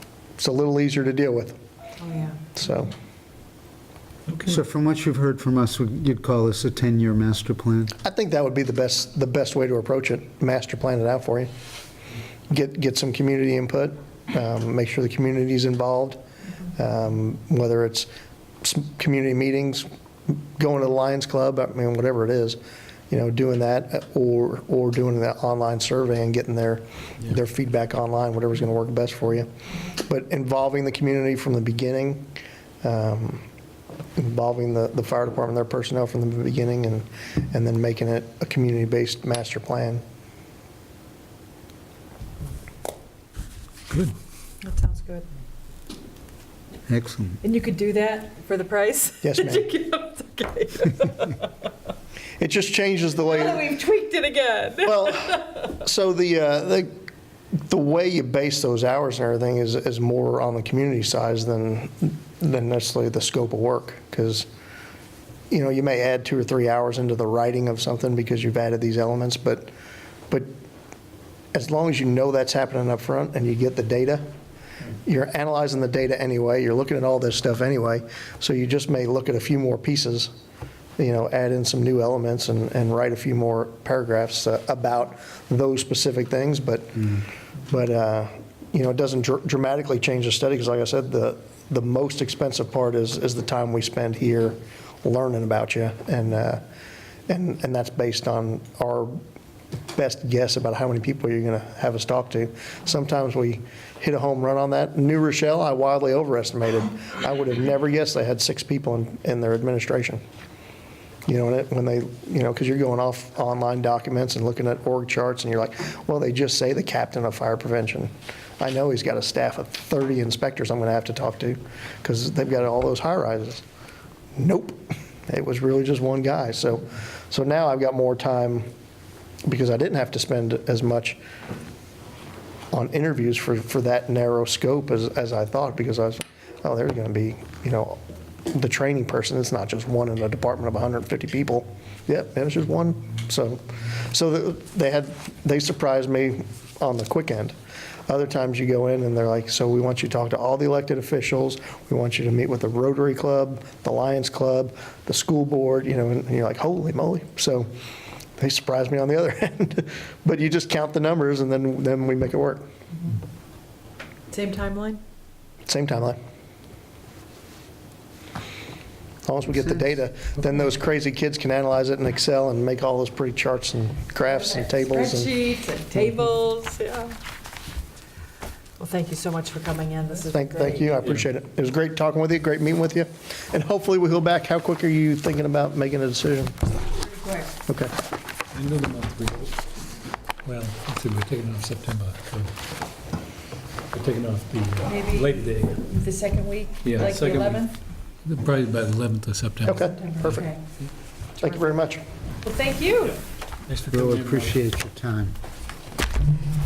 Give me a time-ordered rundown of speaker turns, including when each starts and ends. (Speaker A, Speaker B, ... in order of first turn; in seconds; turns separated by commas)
Speaker A: 0.4-1.6, Speaker B: 2.0-2.4, Speaker A: 2.5-2.9, Speaker C: 4.4-8.0, Speaker A: 8.0-11.5, Speaker A: 12.5-16.2, Speaker A: 16.8-18.1, Speaker A: 18.6-19.9, Speaker A: 20.6-22.6, Speaker A: 23.1-32.3, Speaker A: 32.8-33.5, Speaker A: 34.2-40.0, Speaker B: 44.6-45.3, Speaker C: 46.9-47.4, Speaker B: 47.4-51.5, Speaker A: 49.2-49.7, Speaker A: 52.4-53.6, Speaker B: 53.3-55.5, Speaker A: 54.9-57.1, Speaker A: 57.7-64.5, Speaker A: 65.5-69.7, Speaker A: 71.5-74.2, Speaker A: 75.0-80.3, Speaker A: 81.0-96.6, Speaker A: 97.3-99.2, Speaker A: 99.9-110.2, Speaker A: 111.3-123.6, Speaker A: 124.4-128.7, Speaker A: 129.5-131.2, Speaker A: 132.7-147.6, Speaker A: 148.1-157.7, Speaker A: 158.4-162.7, Speaker B: 164.3-165.0, Speaker A: 165.7-166.2, Speaker A: 169.3-175.3, Speaker B: 174.3-177.2, Speaker B: 178.8-180.9, Speaker A: 180.3-186.6, Speaker B: 187.1-187.5, Speaker A: 187.7-187.9, Speaker D: 188.5-189.6, Speaker D: 190.4-192.5, Speaker D: 193.9-195.8, Speaker B: 194.9-197.8, Speaker D: 196.8-197.7, Speaker D: 198.2-200.4, Speaker A: 199.6-200.4, Speaker B: 200.0-200.6, Speaker A: 201.4-202.0, Speaker B: 202.4-203.2, Speaker D: 203.7-204.6, Speaker C: 203.9-205.3